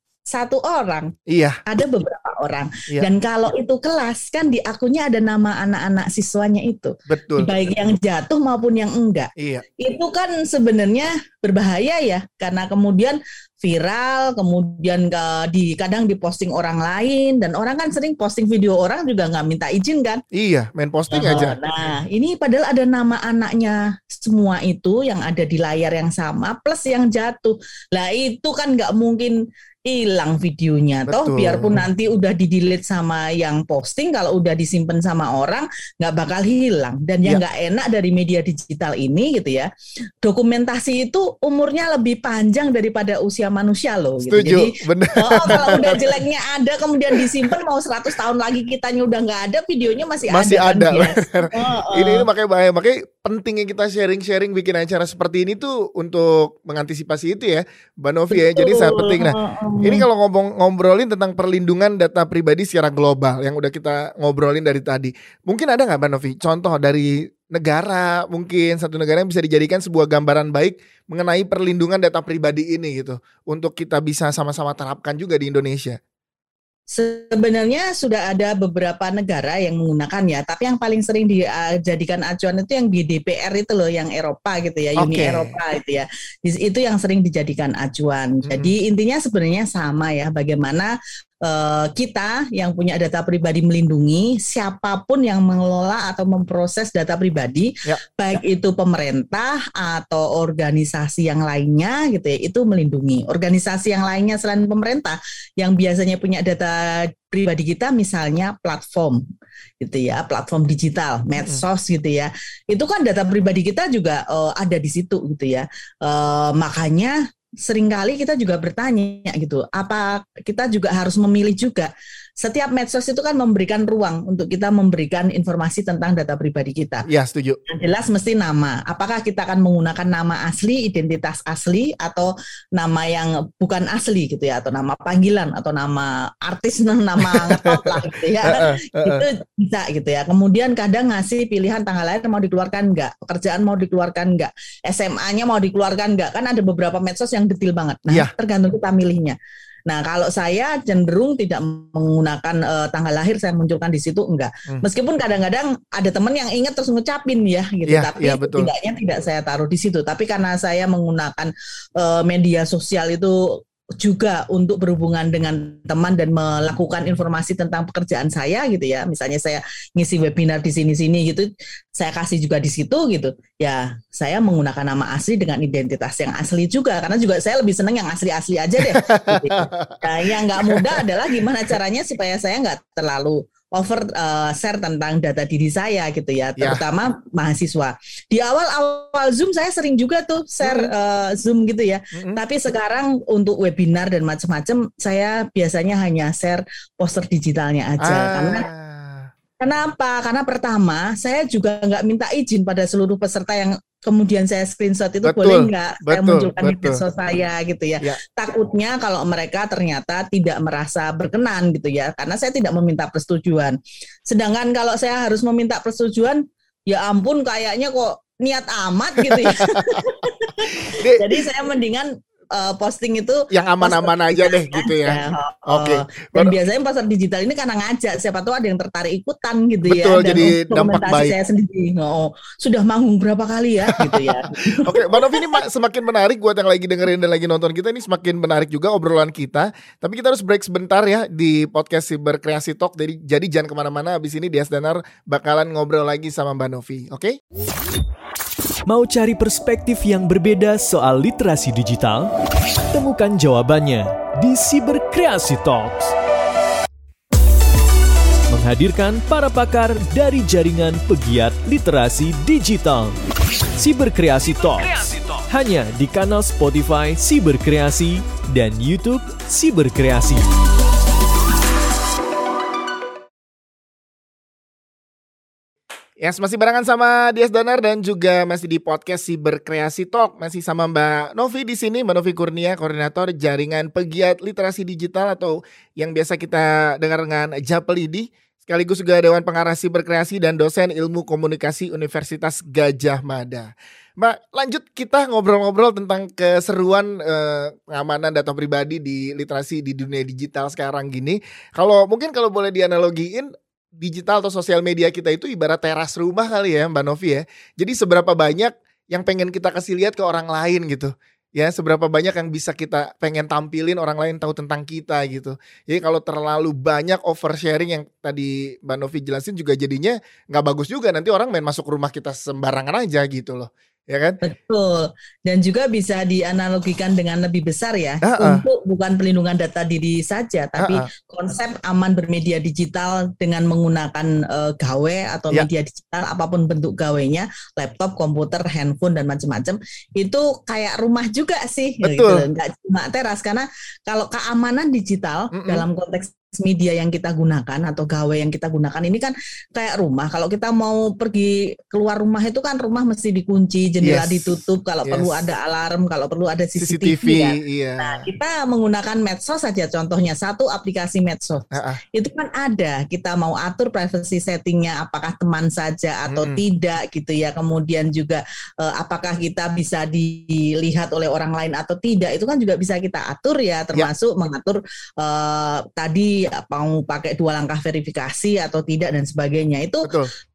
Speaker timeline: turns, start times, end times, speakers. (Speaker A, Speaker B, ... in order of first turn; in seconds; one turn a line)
Speaker A: 0.3-1.1
Speaker B: 1.3-1.6
Speaker A: 1.7-20.2
Speaker B: 7.1-7.5
Speaker B: 9.4-9.6
Speaker B: 20.3-21.6
Speaker A: 21.1-39.7
Speaker B: 31.1-31.9
Speaker A: 40.2-52.3
Speaker B: 44.3-46.2
Speaker B: 50.3-76.0
Speaker A: 58.3-60.0
Speaker A: 76.9-90.9
Speaker B: 85.0-85.5
Speaker A: 91.5-109.2
Speaker A: 109.8-121.9
Speaker A: 122.4-127.1
Speaker B: 127.1-127.6
Speaker A: 127.7-149.4
Speaker B: 137.4-139.2
Speaker A: 149.9-163.4
Speaker B: 157.9-158.7
Speaker A: 164.0-198.7
Speaker B: 178.8-181.1
Speaker B: 190.6-190.9
Speaker B: 192.1-192.4
Speaker B: 198.0-199.3
Speaker A: 199.6-213.8
Speaker B: 205.2-207.0
Speaker A: 214.3-235.6
Speaker B: 219.3-220.0
Speaker B: 220.9-221.4
Speaker B: 223.5-226.5
Speaker B: 229.9-231.3
Speaker B: 233.9-247.4
Speaker C: 248.9-252.3
Speaker C: 252.9-256.1
Speaker C: 258.5-263.2
Speaker C: 263.8-270.5
Speaker B: 276.2-324.4
Speaker A: 324.4-380.1
Speaker B: 328.2-328.6
Speaker B: 330.8-331.1
Speaker B: 342.0-342.4
Speaker B: 345.5-345.8
Speaker B: 354.0-355.4
Speaker B: 356.8-358.3
Speaker B: 361.7-362.0
Speaker B: 366.3-366.6
Speaker B: 380.1-380.3